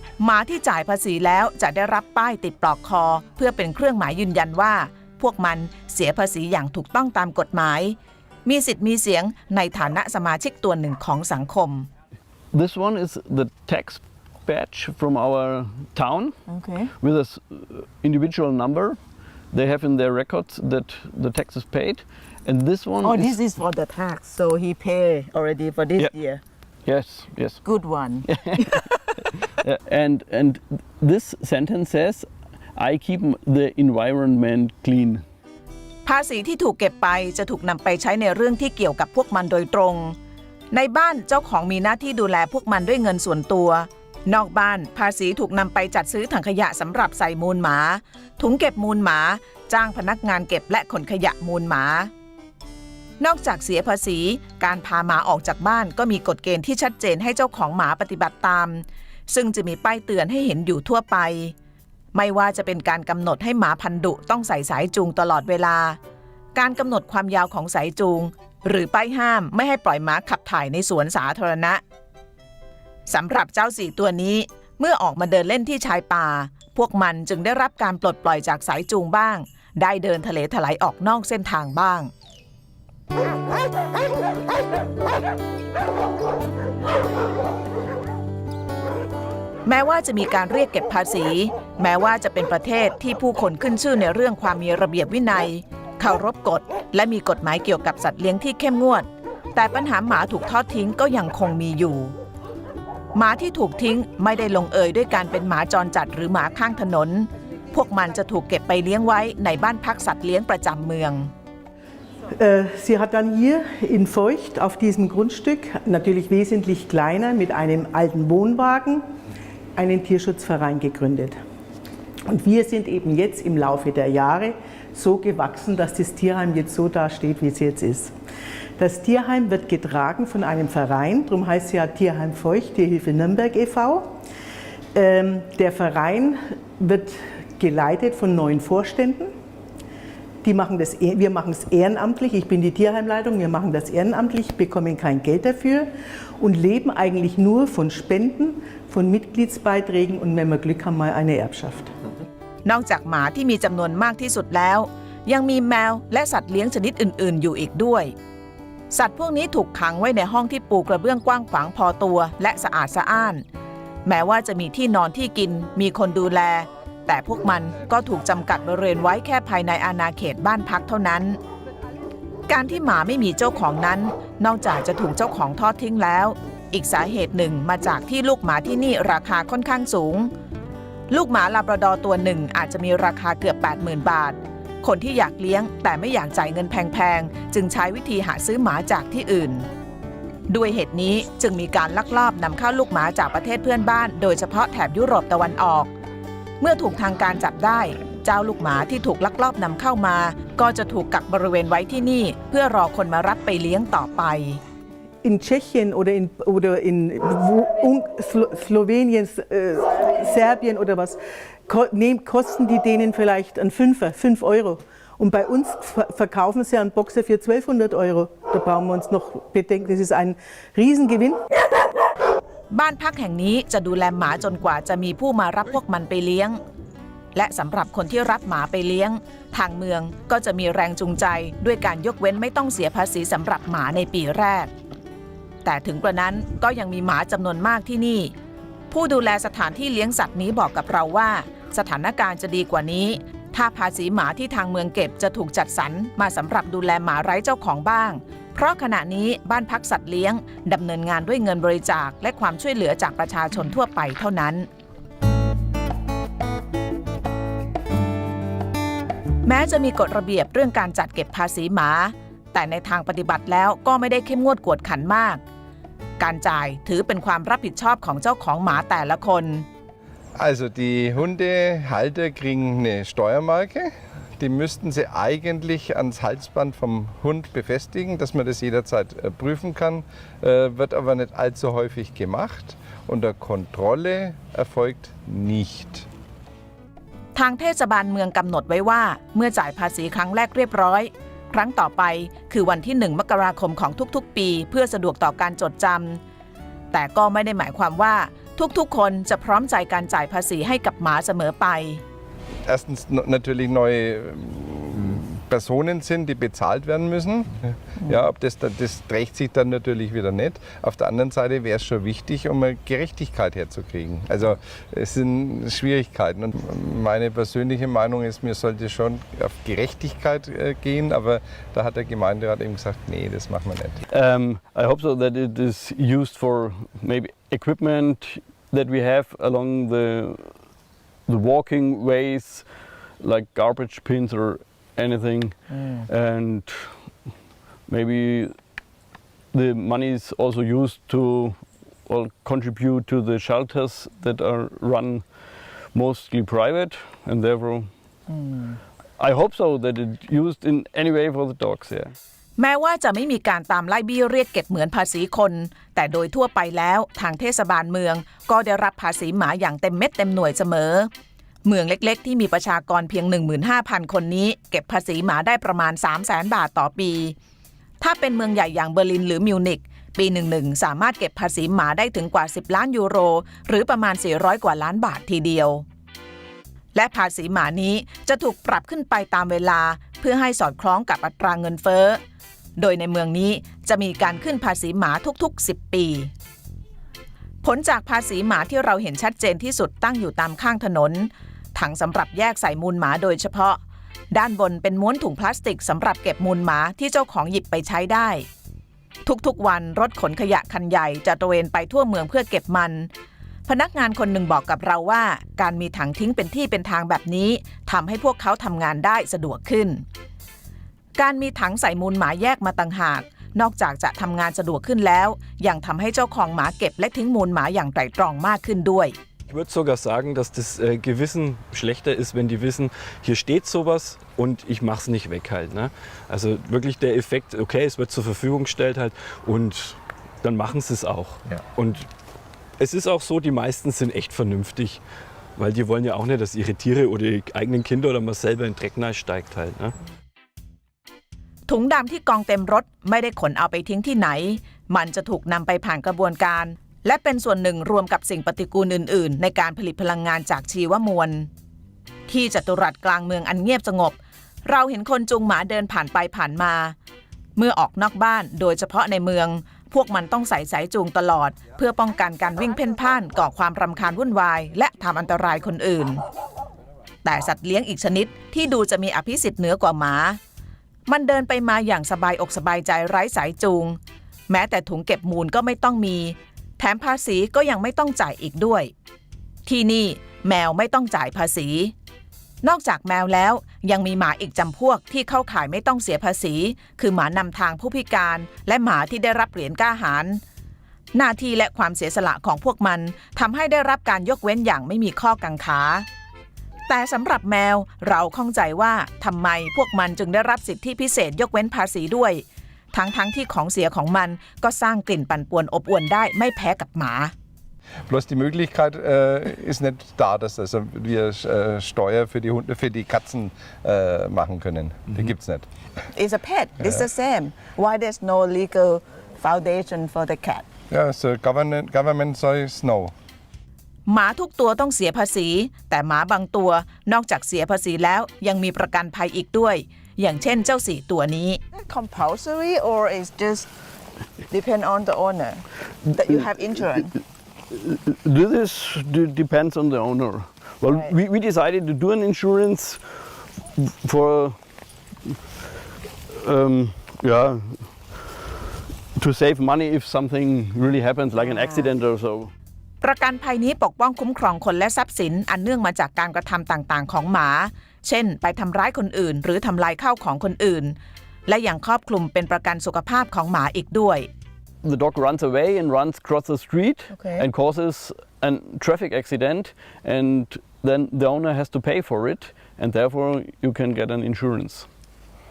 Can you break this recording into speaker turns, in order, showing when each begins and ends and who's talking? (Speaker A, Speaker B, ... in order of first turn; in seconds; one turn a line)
Speaker A: 0.2-11.9
Speaker B: 12.5-16.4
Speaker C: 16.5-16.9
Speaker B: 17.0-19.0
Speaker B: 19.5-23.4
Speaker C: 23.0-26.4
Speaker B: 26.9-27.6
Speaker C: 27.6-28.9
Speaker B: 28.2-35.2
Speaker A: 36.0-40.2
Speaker A: 40.7-52.1
Speaker A: 53.2-61.5
Speaker A: 62.1-66.0
Speaker A: 66.5-71.8
Speaker A: 73.1-82.1
Speaker A: 89.7-102.1
Speaker A: 103.1-111.3
Speaker D: 112.4-119.0
Speaker D: 119.8-121.4
Speaker D: 122.3-128.1
Speaker D: 128.8-134.1
Speaker D: 134.9-139.3
Speaker D: 140.4-145.9
Speaker D: 146.4-151.9
Speaker A: 152.7-158.1
Speaker A: 158.9-163.4
Speaker A: 164.1-171.4
Speaker A: 172.5-180.3
Speaker A: 181.1-189.7
Speaker A: 190.5-195.9
Speaker A: 196.6-204.6
Speaker D: 205.2-221.4
Speaker A: 222.7-226.6
Speaker A: 227.3-234.7
Speaker A: 235.6-238.3
Speaker A: 238.9-254.7
Speaker A: 259.4-265.4
Speaker A: 266.2-269.7
Speaker E: 270.4-286.1
Speaker A: 287.4-296.2
Speaker A: 296.9-302.0
Speaker E: 302.7-324.0
Speaker B: 324.1-330.6
Speaker B: 331.3-332.7
Speaker B: 333.2-337.0
Speaker B: 337.9-338.6
Speaker B: 339.5-345.2
Speaker B: 345.9-347.9
Speaker B: 349.2-352.1
Speaker A: 352.6-361.1
Speaker A: 361.6-367.4
Speaker A: 368.0-375.9
Speaker A: 376.9-382.2
Speaker A: 382.8-386.3
Speaker A: 387.6-393.8
Speaker A: 394.3-398.5
Speaker A: 399.2-403.1
Speaker A: 403.7-410.0
Speaker A: 411.2-419.2
Speaker F: 419.5-432.1
Speaker F: 432.8-435.0
Speaker F: 435.6-439.9
Speaker A: 441.7-451.5
Speaker A: 452.3-456.9
Speaker A: 457.6-466.2
Speaker A: 467.2-470.4
Speaker A: 471.1-478.9
Speaker A: 479.7-481.9
Speaker A: 482.6-490.4
Speaker A: 491.1-496.1
Speaker A: 496.9-507.3
Speaker E: 508.1-515.7
Speaker C: 516.1-520.6
Speaker E: 520.9-523.1
Speaker A: 524.1-531.6
Speaker C: 531.7-533.7
Speaker C: 534.5-537.1
Speaker B: 537.7-543.2
Speaker B: 543.8-544.6
Speaker B: 546.3-548.5
Speaker B: 549.1-552.5
Speaker A: 553.0-561.0
Speaker A: 561.5-564.3
Speaker B: 564.8-574.9